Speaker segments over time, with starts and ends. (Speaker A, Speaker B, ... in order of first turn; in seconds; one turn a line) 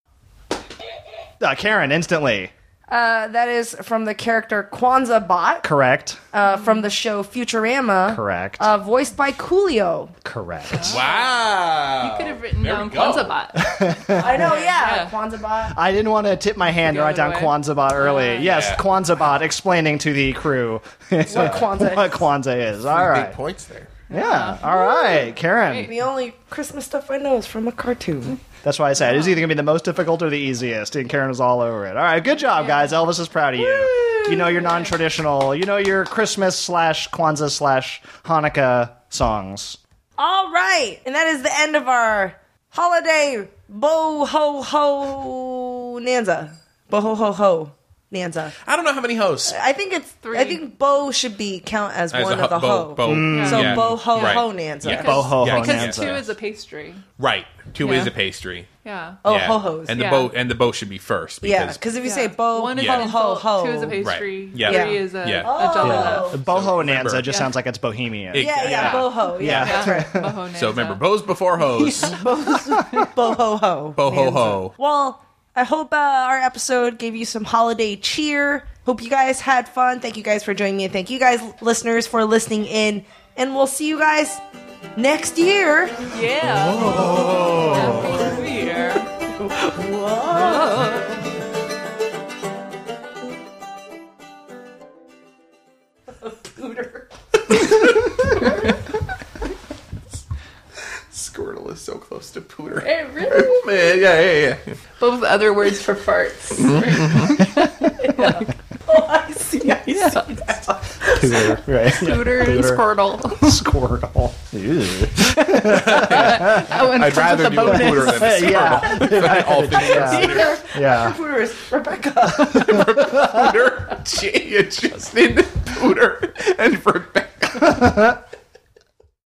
Speaker A: 1.4-2.5
Speaker B: 2.9-5.7
Speaker A: 5.6-6.2
Speaker B: 6.3-10.2
Speaker A: 8.1-8.7
Speaker A: 10.2-11.0
Speaker C: 10.7-15.1
Speaker D: 10.9-13.4
Speaker A: 13.5-14.6
Speaker B: 14.2-15.8
Speaker A: 15.7-23.4
Speaker C: 16.7-18.6
Speaker D: 18.4-18.8
Speaker B: 21.2-22.3
Speaker D: 21.3-21.6
Speaker D: 22.9-24.0
Speaker C: 24.1-25.9
Speaker A: 24.1-25.9
Speaker B: 25.8-28.4
Speaker A: 28.6-39.8
Speaker C: 32.5-32.9
Speaker B: 33.9-34.6
Speaker B: 40.2-48.6
Speaker D: 48.6-49.5
Speaker B: 49.5-55.3
Speaker C: 50.2-50.6
Speaker D: 52.1-56.1
Speaker A: 53.0-54.0
Speaker C: 53.3-54.4
Speaker A: 54.8-56.3
Speaker C: 55.0-57.0
Speaker D: 57.2-58.7
Speaker C: 57.8-58.1
Speaker C: 58.8-59.2
Speaker B: 59.2-60.0
Speaker D: 59.2-61.8
Speaker C: 59.9-60.3
Speaker B: 61.4-64.1
Speaker C: 62.0-66.4
Speaker D: 62.7-63.0
Speaker D: 64.0-67.2
Speaker B: 64.6-66.4
Speaker A: 65.8-70.3
Speaker C: 67.3-67.5
Speaker D: 68.3-69.8
Speaker B: 68.3-70.1
Speaker C: 69.4-71.0
Speaker D: 70.5-72.2
Speaker C: 71.6-72.5
Speaker B: 72.0-84.4
Speaker A: 72.7-73.1
Speaker D: 74.0-74.8
Speaker B: 85.0-86.0
Speaker C: 86.1-89.1
Speaker D: 86.8-88.1
Speaker B: 86.9-88.4
Speaker B: 89.3-91.1
Speaker C: 90.3-91.1
Speaker B: 96.2-97.1
Speaker D: 101.1-104.8
Speaker C: 102.8-103.3
Speaker B: 103.2-103.6
Speaker C: 105.0-108.5
Speaker D: 106.5-107.5
Speaker B: 108.1-111.4
Speaker C: 109.8-110.3
Speaker A: 111.1-116.8
Speaker C: 111.9-113.6
Speaker C: 115.4-119.1
Speaker D: 115.6-120.6
Speaker A: 117.6-121.2
Speaker B: 119.9-123.0
Speaker D: 122.4-128.2